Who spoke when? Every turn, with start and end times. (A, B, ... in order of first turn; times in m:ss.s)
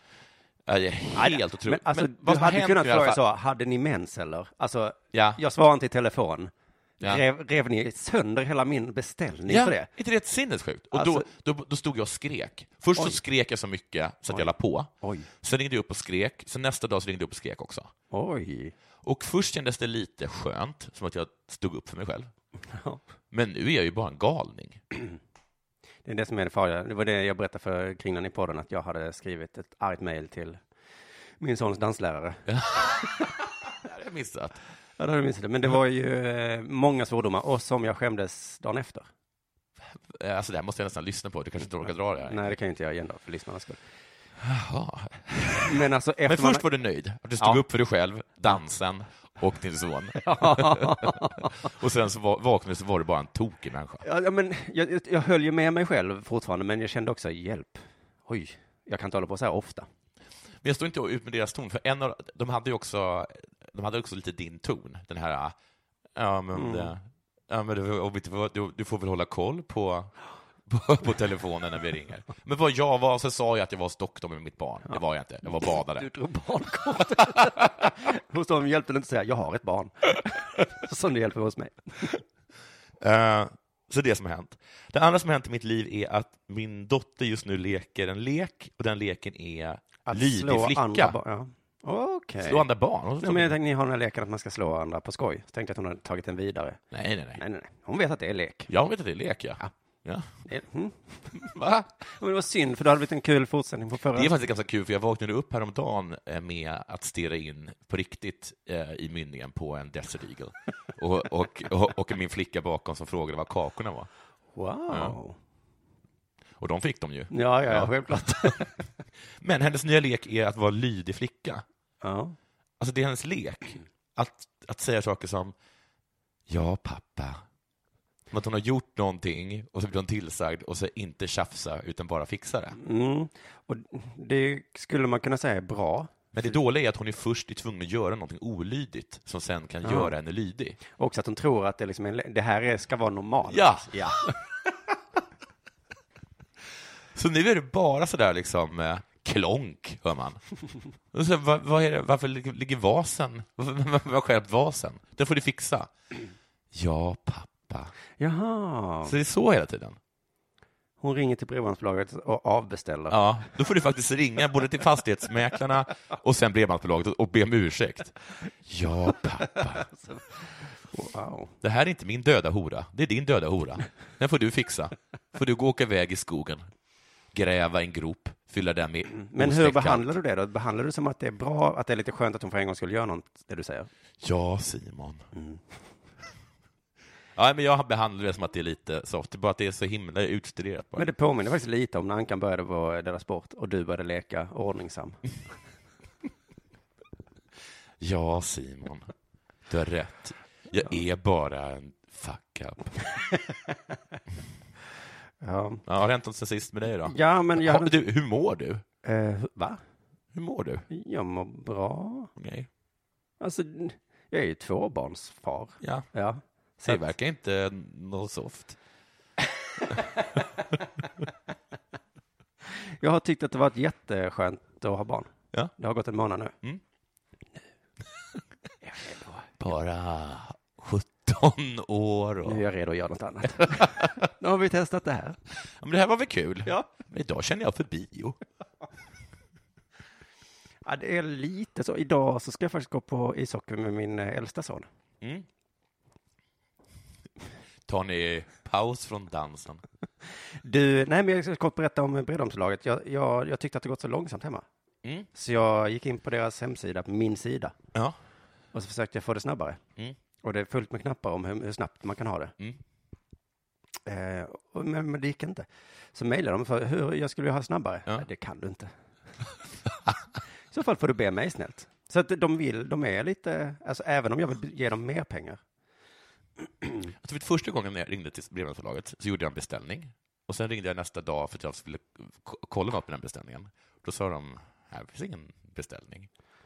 0:00.7-0:03.2 A
0:01.2-0:09.9 B
0:05.1-0:05.4 A
0:09.5-0:14.9 A
0:10.9-0:11.3 B
0:14.3-0:15.3 B
0:15.4-0:17.9 A
0:18.1-0:18.7 B
0:19.0-0:22.3 A
0:22.7-0:23.0 B
0:23.3-0:24.8 A
0:26.0-0:30.6 B
0:31.4-0:32.4 B
0:32.5-0:33.2 A
0:33.8-0:34.6 A
0:35.0-0:39.1 B
0:40.1-0:42.5 A
0:42.3-0:43.8 B
0:44.4-0:45.7 A
0:45.6-0:46.6 B
0:46.3-0:54.0 A
0:50.2-0:51.5 B
0:54.0-0:59.9 B
1:00.6-1:05.6 A
1:06.2-1:10.1 A
1:06.5-1:06.9 B
1:10.7-1:16.1 A
1:15.7-1:22.2 B
1:23.0-1:31.2 A
1:30.1-1:32.6 B
1:32.4-1:33.6 A
1:33.2-1:36.8 B
1:36.9-1:37.4 A
1:37.4-1:38.7 B
1:38.7-1:40.3 A
1:40.4-1:41.4 B
1:41.4-1:41.9 A
1:42.2-1:44.3 B
1:44.2-1:54.1 A
1:54.6-1:55.4 B
1:54.9-1:55.2 A
1:56.6-1:58.7 A
1:57.3-1:58.7 B
1:59.4-2:01.6 A
2:02.0-2:02.4 B
2:02.8-2:05.5 A
2:06.5-2:07.4 A
2:08.3-2:12.8 A
2:12.8-2:16.5 B
2:16.3-2:20.8 A
2:19.8-2:20.1 B
2:20.9-2:24.3 B
2:23.5-2:24.3 A
2:27.2-2:30.4 A
2:31.1-2:35.9 A
2:36.7-2:37.9 A
2:38.2-2:39.1 B
2:39.0-2:40.0 A
2:41.0-2:43.2 B
2:43.1-2:49.9 A
2:49.9-2:50.2 B
2:50.9-2:51.5 B
2:51.6-2:56.7 A
2:57.3-3:00.2 A
2:59.2-3:03.9 B
3:04.2-3:05.2 A
3:05.3-3:05.6 B
3:07.4-3:11.1 A
3:11.0-3:15.2 B
3:18.0-3:19.1 A
3:19.7-3:23.0 A
3:25.4-3:25.8 B
3:25.9-3:28.8 A
3:27.1-3:28.0 B
3:29.0-3:29.8 B
3:30.3-3:30.8 A
3:30.9-3:32.3 B
3:32.4-3:32.7 A
3:33.4-3:37.1 B
3:36.9-3:38.8 A
3:43.0-3:46.5 B
3:48.9-3:49.4 B
3:49.6-3:52.6 A
3:52.5-3:55.4 B
3:53.7-3:54.1 A
3:55.8-3:58.4 A
4:00.8-4:04.9 B
4:07.9-4:09.8 A
4:10.6-4:14.6 B
4:15.3-4:17.7 B
4:18.7-4:19.8 B
4:20.4-4:22.5 B
4:24.1-4:28.9 B
4:30.7-4:35.6 B
4:37.2-4:46.3 A